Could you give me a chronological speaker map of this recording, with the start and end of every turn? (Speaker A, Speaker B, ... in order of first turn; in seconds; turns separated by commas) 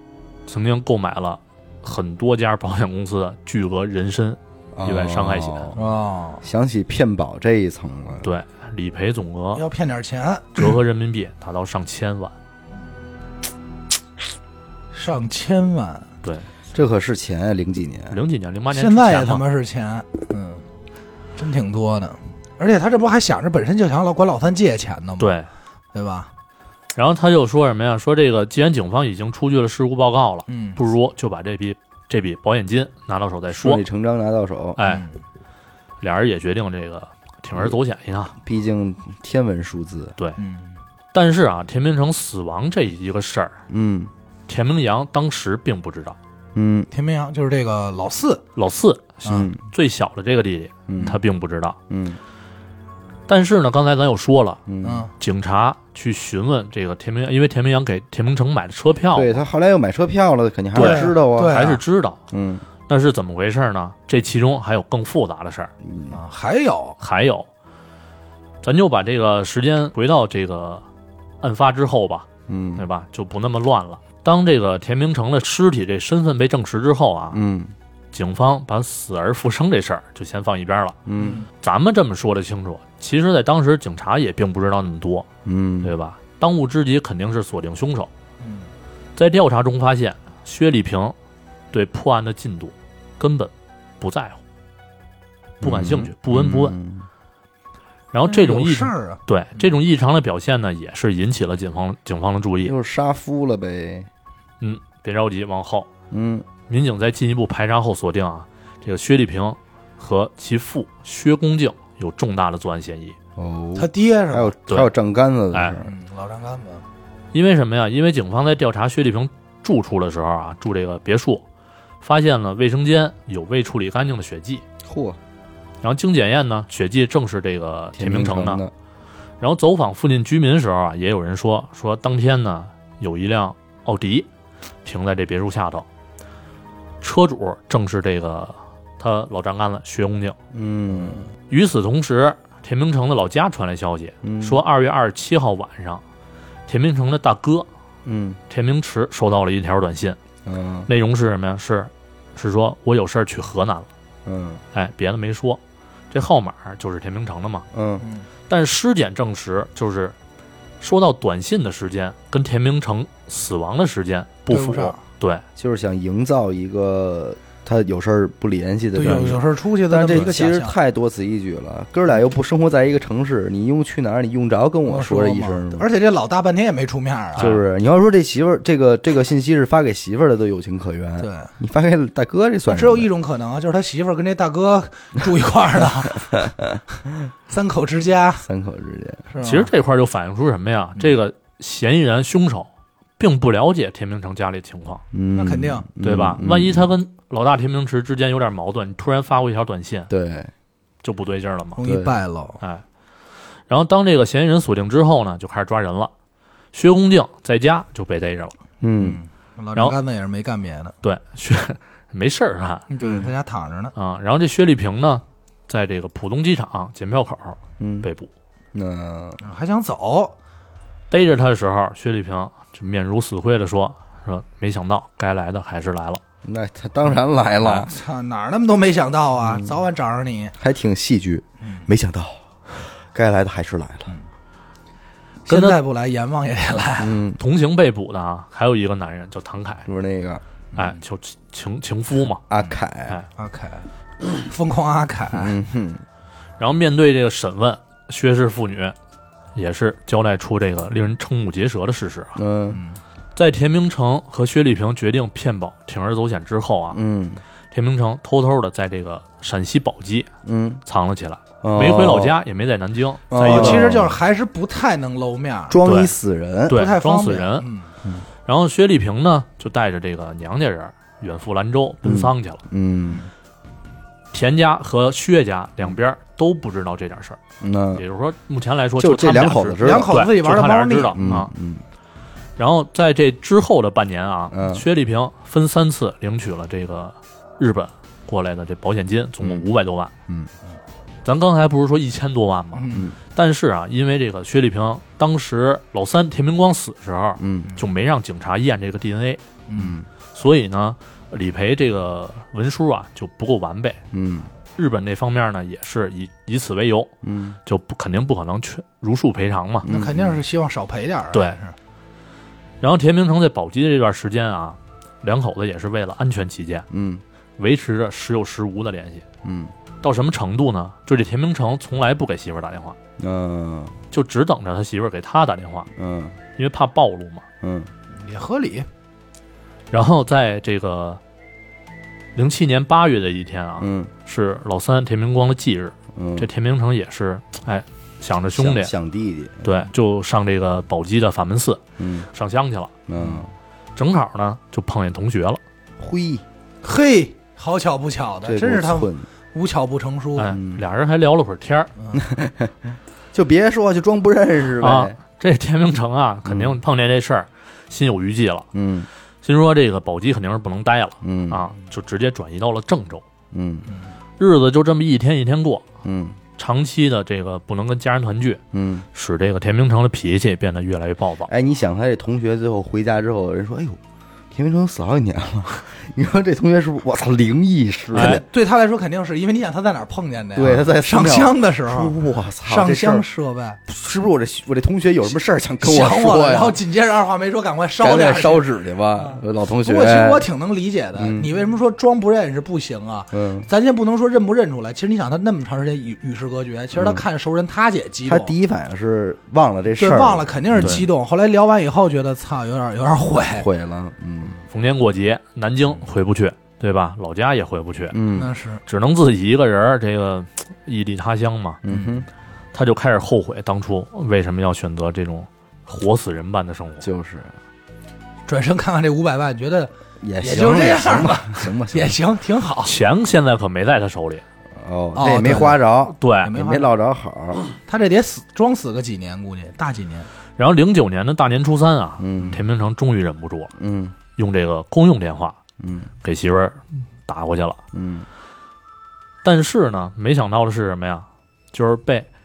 Speaker A: 0.5-5.8, Speaker B: 4.7-5.8, Speaker C: 5.8-6.4, Speaker B: 6.4-8.3, Speaker A: 8.2-9.6, Speaker C: 9.5-10.7, Speaker A: 10.6-12.3, Speaker C: 14.9-16.1, Speaker B: 16.7-18.2, Speaker A: 18.1-19.4, Speaker C: 18.7-20.6, Speaker C: 21.4-25.3, Speaker A: 25.2-25.5, Speaker C: 25.9-26.3, Speaker A: 26.9-33.8, Speaker C: 30.5-30.8, Speaker B: 33.5-34.8, Speaker A: 34.8-35.0, Speaker C: 34.8-35.1, Speaker A: 36.0-38.3, Speaker B: 38.4-40.1, Speaker C: 40.4-40.8, Speaker A: 41.1-43.6, Speaker B: 43.7-44.1, Speaker A: 44.5-46.2, Speaker B: 46.5-46.9, Speaker C: 46.9-48.4, Speaker A: 48.5-51.8, Speaker B: 49.2-49.6, Speaker B: 50.9-51.2, Speaker B: 51.9-52.2, Speaker A: 53.3-54.6, Speaker B: 54.7-55.1, Speaker C: 54.8-55.1, Speaker A: 55.2-59.4, Speaker B: 59.1-61.6, Speaker A: 60.7-62.2, Speaker C: 60.8-61.8, Speaker B: 62.3-62.6, Speaker A: 62.9-65.7, Speaker B: 65.8-66.2, Speaker C: 66.1-67.0, Speaker A: 67.0-67.5, Speaker A: 68.6-70.8, Speaker A: 71.4-77.4, Speaker B: 72.5-72.8, Speaker B: 77.3-77.7, Speaker A: 78.1-81.0, Speaker B: 81.0-81.4, Speaker C: 81.2-81.5, Speaker A: 81.6-85.3, Speaker B: 85.4-85.9, Speaker A: 85.8-88.1, Speaker C: 88.4-88.7, Speaker A: 89.2-91.1, Speaker A: 91.7-94.4, Speaker B: 95.6-97.1, Speaker A: 95.6-96.8, Speaker A: 98.1-102.7, Speaker C: 98.3-99.6, Speaker B: 102.6-104.1, Speaker A: 104.6-105.9, Speaker B: 106.1-106.5, Speaker A: 106.7-113.2, Speaker B: 113.4-115.9, Speaker C: 113.8-114.5, Speaker C: 115.8-116.8, Speaker A: 117.3-121.4, Speaker A: 122.0-124.6, Speaker B: 124.8-125.2, Speaker A: 125.8-128.6, Speaker B: 128.0-128.7, Speaker A: 129.4-134.3, Speaker A: 134.8-135.8, Speaker A: 137.0-140.3, Speaker B: 140.5-141.3, Speaker A: 141.5-146.0, Speaker B: 144.2-144.6, Speaker A: 146.7-147.7, Speaker B: 148.0-148.4, Speaker A: 148.5-150.2, Speaker B: 150.4-150.9, Speaker A: 150.9-153.9, Speaker B: 154.2-154.6, Speaker A: 154.7-155.6, Speaker A: 156.1-157.7, Speaker B: 157.7-158.0, Speaker C: 158.0-158.3, Speaker A: 158.5-160.1, Speaker A: 160.8-165.4, Speaker C: 164.5-165.0, Speaker B: 165.6-175.9, Speaker C: 168.9-170.7, Speaker C: 174.8-177.5, Speaker B: 177.4-183.1, Speaker A: 177.4-177.6, Speaker C: 181.2-181.5, Speaker C: 182.7-186.4, Speaker C: 187.5-188.4, Speaker B: 188.4-189.2, Speaker C: 189.3-189.7, Speaker A: 189.4-195.0, Speaker B: 195.1-196.9, Speaker C: 195.3-195.8, Speaker A: 196.0-200.1, Speaker B: 200.1-200.5, Speaker A: 201.0-201.8, Speaker C: 201.8-202.6, Speaker B: 201.8-202.1, Speaker A: 203.7-206.1, Speaker A: 206.7-208.5, Speaker B: 208.8-209.2, Speaker C: 208.9-210.9, Speaker A: 211.0-212.9, Speaker C: 212.9-213.9, Speaker B: 213.0-213.3, Speaker A: 213.9-218.3, Speaker B: 217.8-218.1, Speaker B: 218.7-219.4, Speaker C: 219.4-220.3, Speaker A: 221.1-226.2, Speaker B: 226.4-227.9, Speaker C: 227.6-230.5, Speaker B: 229.4-229.7, Speaker B: 230.6-232.4, Speaker C: 231.6-231.9, Speaker B: 233.1-234.1, Speaker C: 235.4-237.2, Speaker A: 235.5-235.8, Speaker B: 237.0-237.4, Speaker A: 237.4-239.9, Speaker B: 239.8-240.4, Speaker A: 240.8-242.4, Speaker B: 242.5-243.2, Speaker C: 243.4-245.6, Speaker B: 245.3-246.0, Speaker A: 246.6-248.9, Speaker A: 249.5-252.4, Speaker B: 252.3-252.8, Speaker C: 252.7-253.0, Speaker A: 253.3-257.0, Speaker B: 256.9-257.4, Speaker A: 257.7-260.3, Speaker B: 260.4-260.8, Speaker A: 260.9-263.9, Speaker B: 261.6-262.4, Speaker B: 263.3-264.2, Speaker C: 263.4-265.8, Speaker B: 265.7-266.8, Speaker A: 265.8-266.1, Speaker A: 266.7-267.7, Speaker C: 266.7-267.9, Speaker A: 268.4-272.6, Speaker B: 272.0-273.2, Speaker A: 274.3-277.4, Speaker B: 277.6-278.0, Speaker A: 277.9-281.5, Speaker B: 279.0-280.1, Speaker C: 279.8-281.2, Speaker B: 281.1-281.8, Speaker A: 282.6-290.1, Speaker B: 284.5-284.8, Speaker A: 291.2-299.4, Speaker C: 292.7-293.1, Speaker B: 297.4-297.7, Speaker C: 299.7-300.0, Speaker B: 299.8-300.1, Speaker A: 300.3-304.0, Speaker B: 304.1-304.5, Speaker A: 304.8-307.1, Speaker B: 307.2-307.6, Speaker A: 307.6-309.9, Speaker B: 309.8-310.4, Speaker C: 309.9-311.8, Speaker A: 312.8-316.9, Speaker B: 316.9-317.2, Speaker A: 317.6-319.2, Speaker B: 319.4-319.7, Speaker A: 320.0-323.0, Speaker B: 323.2-323.9, Speaker A: 324.1-325.9, Speaker B: 325.9-326.4, Speaker A: 326.6-327.4, Speaker B: 327.6-327.9, Speaker C: 328.1-328.9, Speaker A: 329.9-331.2, Speaker A: 332.3-338.9, Speaker B: 333.8-334.1, Speaker B: 336.1-336.5, Speaker B: 338.5-339.8, Speaker A: 339.6-342.9, Speaker B: 342.0-342.3, Speaker B: 343.1-343.5, Speaker C: 343.2-343.4, Speaker A: 343.9-345.6, Speaker B: 346.0-346.4, Speaker C: 346.8-350.6, Speaker B: 348.4-349.3, Speaker A: 350.4-351.9, Speaker B: 350.5-350.8, Speaker C: 352.0-352.2, Speaker B: 352.1-355.2, Speaker A: 354.8-358.7, Speaker B: 356.4-356.8, Speaker B: 358.7-359.1, Speaker A: 359.4-363.2, Speaker B: 361.2-361.7, Speaker B: 363.5-363.9, Speaker A: 364.4-365.8, Speaker B: 366.0-366.4, Speaker A: 366.6-368.6, Speaker B: 368.7-369.1, Speaker A: 369.1-371.5, Speaker B: 371.5-374.0, Speaker B: 374.5-378.4, Speaker A: 378.1-378.4, Speaker C: 378.1-383.8, Speaker B: 380.5-383.2, Speaker B: 383.9-386.8, Speaker C: 385.8-398.5, Speaker B: 388.0-390.5, Speaker B: 391.1-391.5, Speaker B: 393.3-393.7, Speaker B: 396.9-397.2, Speaker B: 398.2-401.0, Speaker C: 399.9-403.7, Speaker A: 400.8-401.1, Speaker B: 403.5-404.6, Speaker A: 404.7-408.2, Speaker B: 408.1-408.5, Speaker C: 408.3-408.8, Speaker A: 408.9-411.8, Speaker B: 411.8-412.3, Speaker C: 411.9-412.1, Speaker A: 412.7-417.1, Speaker B: 417.0-417.5, Speaker C: 418.5-422.9, Speaker B: 420.2-422.1, Speaker A: 422.8-424.4, Speaker B: 424.8-427.6, Speaker C: 425.1-425.9, Speaker A: 426.2-426.5, Speaker C: 426.4-426.9, Speaker C: 427.9-430.3, Speaker A: 430.6-433.7, Speaker B: 432.2-432.6, Speaker B: 433.8-434.1, Speaker A: 434.4-435.6, Speaker B: 435.8-436.1, Speaker A: 436.2-437.8, Speaker B: 437.9-438.3, Speaker A: 439.4-442.3